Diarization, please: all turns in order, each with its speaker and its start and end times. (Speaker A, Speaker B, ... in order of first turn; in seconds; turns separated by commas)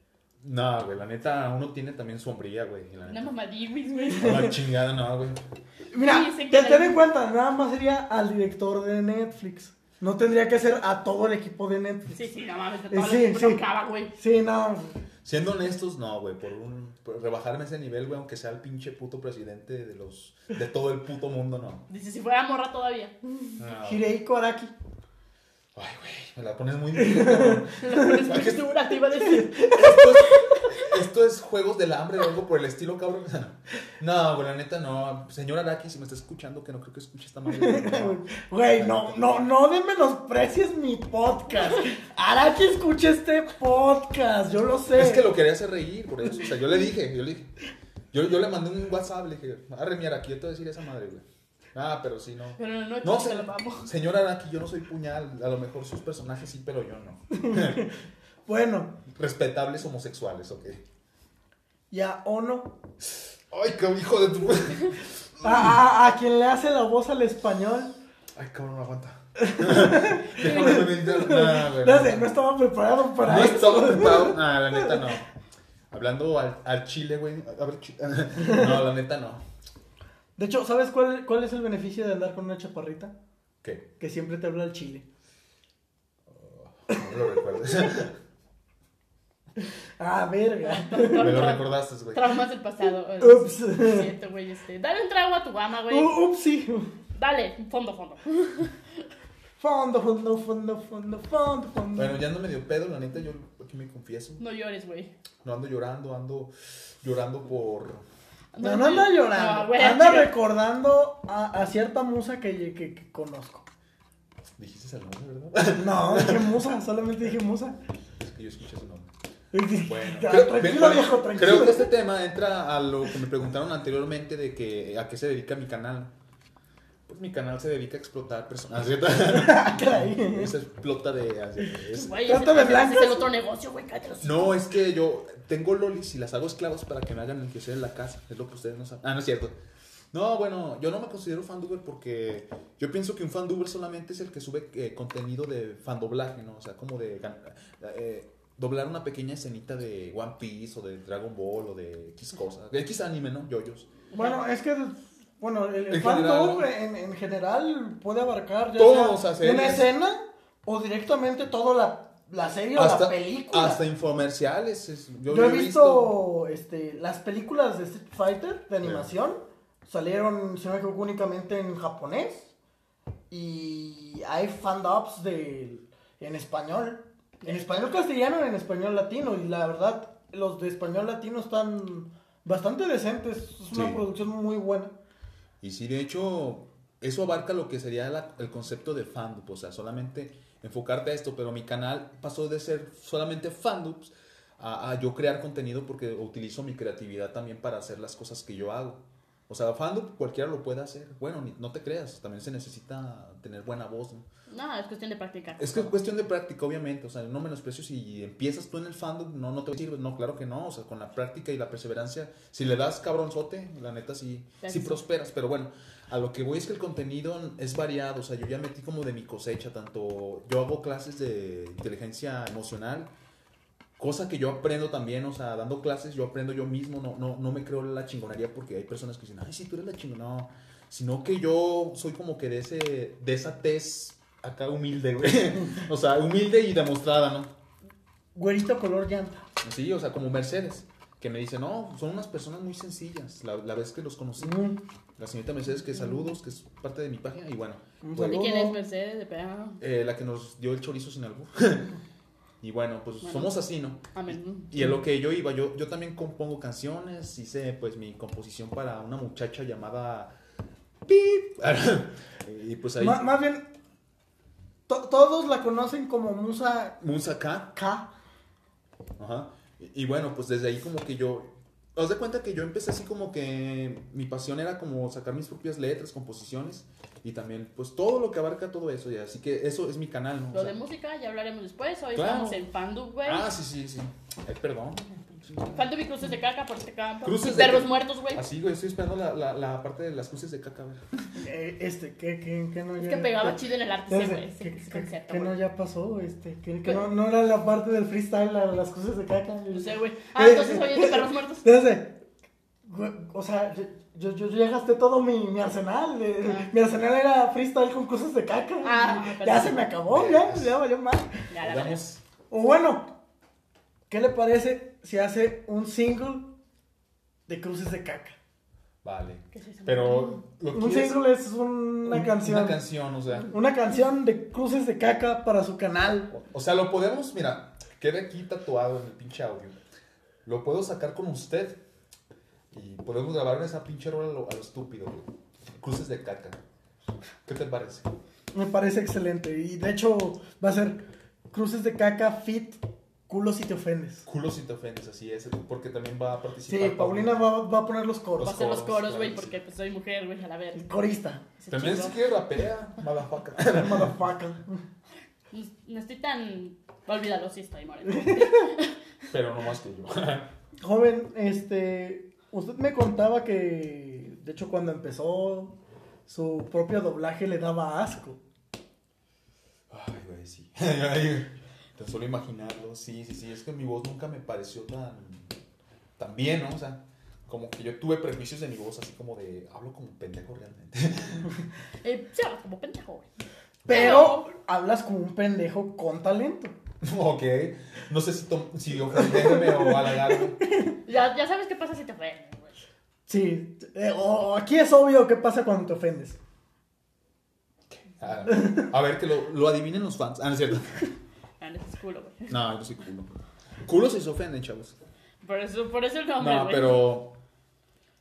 Speaker A: 0.4-3.3, Speaker B: 3.1-4.5, Speaker A: 4.2-5.4, Speaker C: 5.9-12.2, Speaker B: 5.9-7.0, Speaker B: 12.1-14.1, Speaker C: 12.9-15.0, Speaker A: 15.2-21.8, Speaker B: 21.9-23.1, Speaker C: 23.4-24.7, Speaker A: 23.6-24.1, Speaker A: 25.7-28.7, Speaker C: 27.0-27.7, Speaker B: 27.8-30.7, Speaker C: 29.2-30.1, Speaker A: 29.7-39.4, Speaker C: 37.5-45.3, Speaker A: 44.9-47.5, Speaker A: 48.1-57.8, Speaker B: 52.6-53.9, Speaker C: 57.3-59.0, Speaker A: 59.1-60.8, Speaker C: 61.9-62.8, Speaker A: 63.1-65.7, Speaker C: 65.4-68.0, Speaker A: 68.3-72.3, Speaker C: 69.4-75.0, Speaker B: 70.4-70.8, Speaker A: 73.2-75.3, Speaker A: 75.9-79.4, Speaker C: 78.4-78.8, Speaker C: 80.4-83.1, Speaker C: 84.0-85.0, Speaker A: 86.3-88.2, Speaker C: 89.6-91.5, Speaker B: 90.6-96.2, Speaker A: 91.2-92.2, Speaker C: 93.2-94.1, Speaker C: 95.9-96.9, Speaker B: 97.1-98.7, Speaker C: 99.6-102.2, Speaker A: 102.0-104.4, Speaker B: 104.4-105.1, Speaker A: 105.4-108.0, Speaker B: 108.5-110.3, Speaker C: 108.6-113.7, Speaker A: 114.6-116.6, Speaker C: 115.7-117.8, Speaker A: 118.2-119.1, Speaker C: 119.5-121.9, Speaker A: 119.8-126.1, Speaker A: 127.1-132.3, Speaker C: 129.3-130.5, Speaker B: 131.9-134.5, Speaker C: 132.2-133.3, Speaker A: 134.2-139.5, Speaker A: 140.1-153.9, Speaker B: 154.1-154.4, Speaker C: 154.1-163.8, Speaker A: 155.9-156.7, Speaker A: 158.8-159.9, Speaker A: 162.7-166.1, Speaker C: 165.3-172.5, Speaker A: 168.8-169.1, Speaker C: 173.3-184.9, Speaker A: 183.7-184.0, Speaker A: 185.6-204.2, Speaker B: 204.5-205.9, Speaker A: 205.6-223.1, Speaker B: 214.6-215.0, Speaker A: 224.0-237.5, Speaker C: 238.3-239.4, Speaker A: 239.6-244.6, Speaker C: 244.4-244.8, Speaker A: 245.2-248.4, Speaker C: 248.0-248.8, Speaker B: 248.2-249.8, Speaker A: 249.8-252.0, Speaker A: 252.6-260.3, Speaker B: 253.2-253.5, Speaker B: 254.1-254.7, Speaker A: 261.1-263.3, Speaker C: 263.0-263.7, Speaker C: 264.9-267.0, Speaker A: 267.0-267.7, Speaker C: 267.7-268.1, Speaker A: 269.2-280.8, Speaker B: 280.5-283.5, Speaker A: 282.1-282.6, Speaker A: 283.2-285.8, Speaker B: 285.7-288.4, Speaker A: 287.2-291.0, Speaker C: 291.4-302.2, Speaker B: 293.0-295.5, Speaker B: 299.7-301.7, Speaker C: 302.8-311.4, Speaker B: 306.4-306.7, Speaker B: 308.8-309.9, Speaker A: 310.1-310.8, Speaker B: 311.5-312.0, Speaker A: 311.6-312.2, Speaker C: 312.5-313.1, Speaker C: 314.1-316.5, Speaker C: 317.5-318.4, Speaker A: 319.0-321.2, Speaker B: 319.5-320.4, Speaker C: 320.7-322.8, Speaker A: 322.1-323.5, Speaker C: 323.5-326.3, Speaker A: 326.3-329.8, Speaker A: 330.4-331.8, Speaker A: 332.7-335.2, Speaker A: 335.8-336.6, Speaker A: 337.4-338.1, Speaker C: 338.5-344.2, Speaker A: 344.2-347.4, Speaker C: 346.7-348.6, Speaker A: 348.4-349.6, Speaker B: 348.4-350.8, Speaker C: 350.7-351.4, Speaker B: 351.6-352.2, Speaker A: 351.7-354.2, Speaker C: 353.7-354.8, Speaker B: 355.5-358.9, Speaker C: 358.1-358.7, Speaker A: 359.3-360.5, Speaker C: 360.8-365.7, Speaker C: 366.3-368.4, Speaker A: 369.9-375.5, Speaker A: 376.2-381.5, Speaker B: 382.0-383.3, Speaker C: 383.9-386.7, Speaker B: 383.9-384.4, Speaker A: 387.0-390.6, Speaker C: 389.2-390.9, Speaker B: 391.1-392.8, Speaker C: 393.3-396.4, Speaker A: 397.9-401.0, Speaker C: 398.6-398.8, Speaker B: 401.6-402.5, Speaker A: 402.5-403.3, Speaker A: 403.8-404.9, Speaker B: 405.4-407.1, Speaker A: 406.4-407.4